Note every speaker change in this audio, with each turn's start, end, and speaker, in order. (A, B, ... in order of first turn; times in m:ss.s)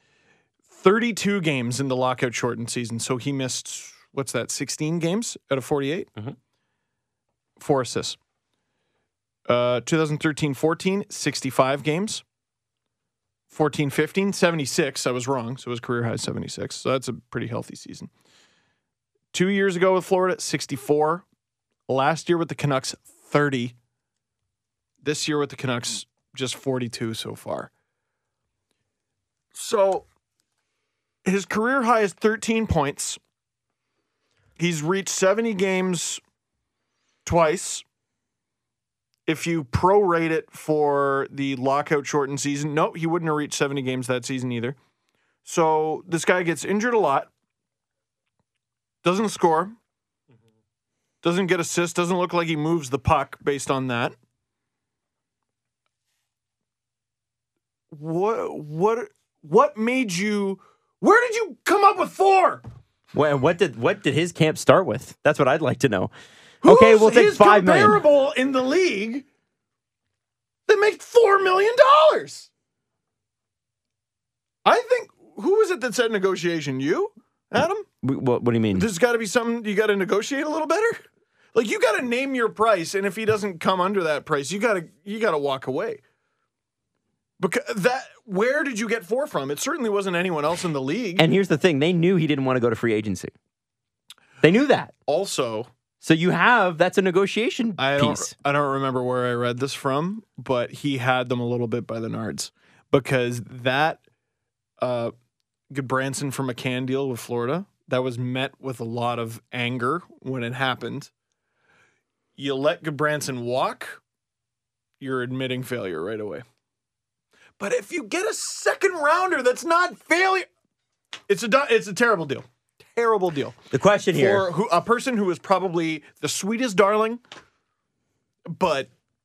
0:00.7-0:06.1 A
0:07.6-0:08.2 A
0:09.5-0:12.2 A
0:13.5-0:18.1 A
0:19.3-0:21.2 A
0:21.9-0:23.7 A
0:25.0-0:27.7 A
0:29.5-0:30.0 A
0:31.3-0:33.2 A
0:34.6-0:36.2 A
0:37.2-0:37.8 A
0:39.3-0:44.8 A
0:45.4-0:47.3 A
0:49.0-0:49.7 A
0:51.2-0:54.2 A
0:57.9-1:02.6 A
1:03.1-1:06.1 B
1:06.6-1:08.0 B
1:06.6-1:09.2 A
1:10.7-1:12.5 A
1:14.6-1:17.8 A
1:18.0-1:18.9 B
1:18.7-1:21.0 A
1:21.5-1:26.0 A
1:27.4-1:31.2 A
1:31.2-1:33.3 B
1:34.4-1:34.9 B
1:35.1-1:35.7 A
1:36.0-1:38.3 B
1:37.8-1:44.0 A
1:44.8-1:45.1 A
1:45.7-1:51.1 A
1:52.4-1:54.0 A
1:55.0-1:56.4 A
1:57.6-2:00.5 A
2:01.3-2:03.6 A
2:03.7-2:04.4 B
2:04.1-2:07.2 A
2:08.5-2:08.9 A